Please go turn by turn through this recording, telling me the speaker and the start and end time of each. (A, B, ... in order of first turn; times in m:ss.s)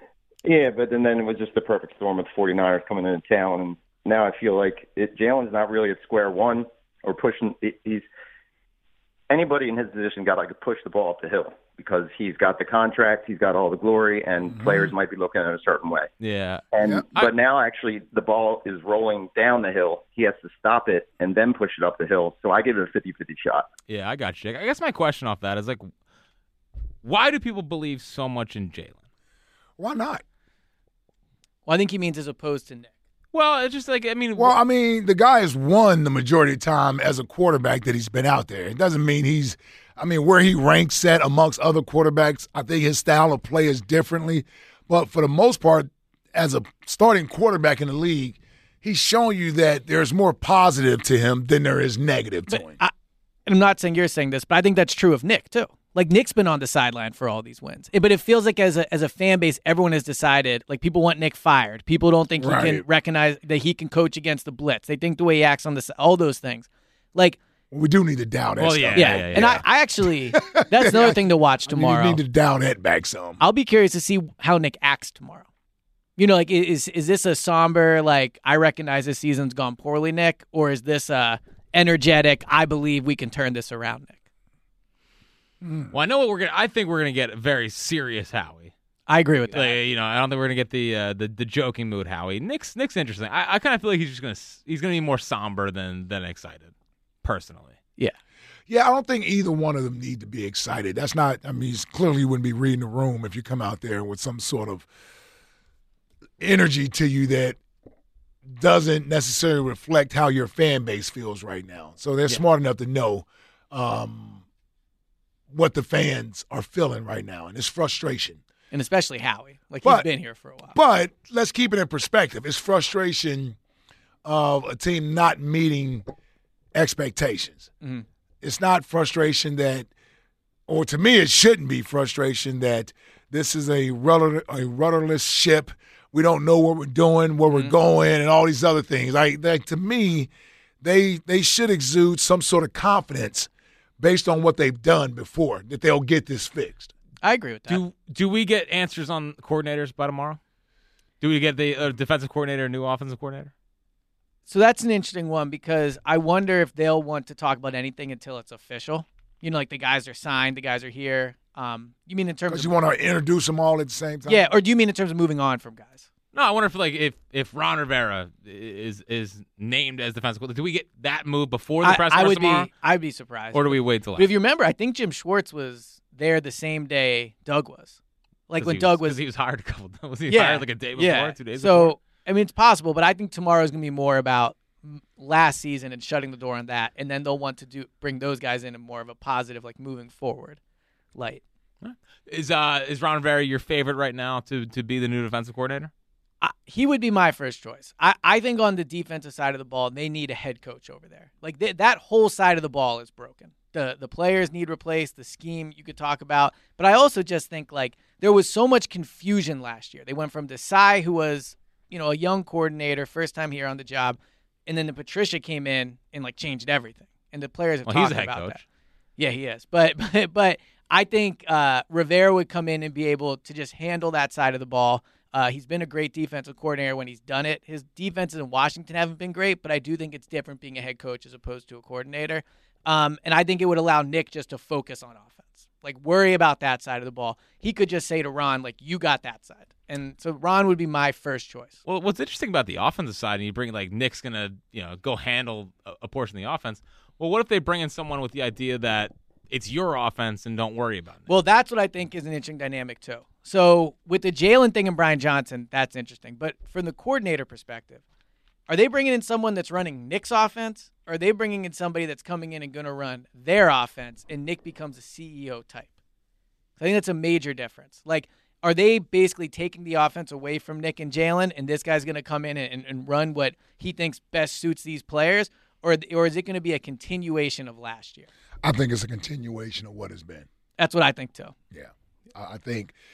0:00.4-0:08.1 A
0:09.3-0:16.1 A
0:14.5-0:14.9 B
0:16.2-0:17.3 C
0:16.7-0:23.7 A
0:23.9-0:25.9 C
0:27.0-0:29.0 C
0:29.8-0:30.2 B
0:31.7-0:32.9 D
0:33.3-0:34.6 C
0:34.4-0:52.8 B
0:52.5-0:52.9 D
0:53.5-1:07.4 D
1:02.4-1:02.8 B
1:07.7-1:09.6 B
1:08.6-1:09.6 C
1:09.0-1:12.2 D
1:10.3-1:13.4 B
1:13.4-1:15.5 D
1:16.2-1:24.2 D
1:25.6-1:25.9 B
1:25.9-1:28.7 C
1:29.1-1:29.8 D
1:29.5-1:37.8 C
1:38.7-1:44.9 B
1:46.4-1:47.6 B
1:48.5-1:54.4 B
1:55.5-1:58.4 B
1:58.7-2:00.8 D
2:00.7-2:03.6 B
2:04.2-2:06.0 B
2:06.7-2:07.7 B
2:08.4-2:09.9 B
2:10.7-2:20.3 B
2:17.5-2:17.8 D
2:20.8-2:26.9 B
2:27.2-2:27.8 D
2:27.7-2:30.4 C
2:31.2-2:33.5 C
2:34.5-2:42.7 D
2:42.5-2:44.5 B
2:44.3-2:46.1 D
2:46.3-2:52.7 C
2:51.8-2:58.0 D
2:53.5-2:54.3 C
2:58.5-2:59.2 D
2:58.6-3:02.0 C
3:00.3-3:10.6 D
3:11.2-3:11.4 D
3:11.8-3:15.9 C
3:16.4-3:38.6 D
3:37.9-3:38.6 C
3:39.2-4:01.8 D
4:01.9-4:11.3 C
4:11.3-4:18.0 D
4:18.7-4:25.9 D
4:26.8-4:38.3 D
4:38.6-4:40.5 B
4:40.8-4:41.5 D
4:41.7-4:43.0 B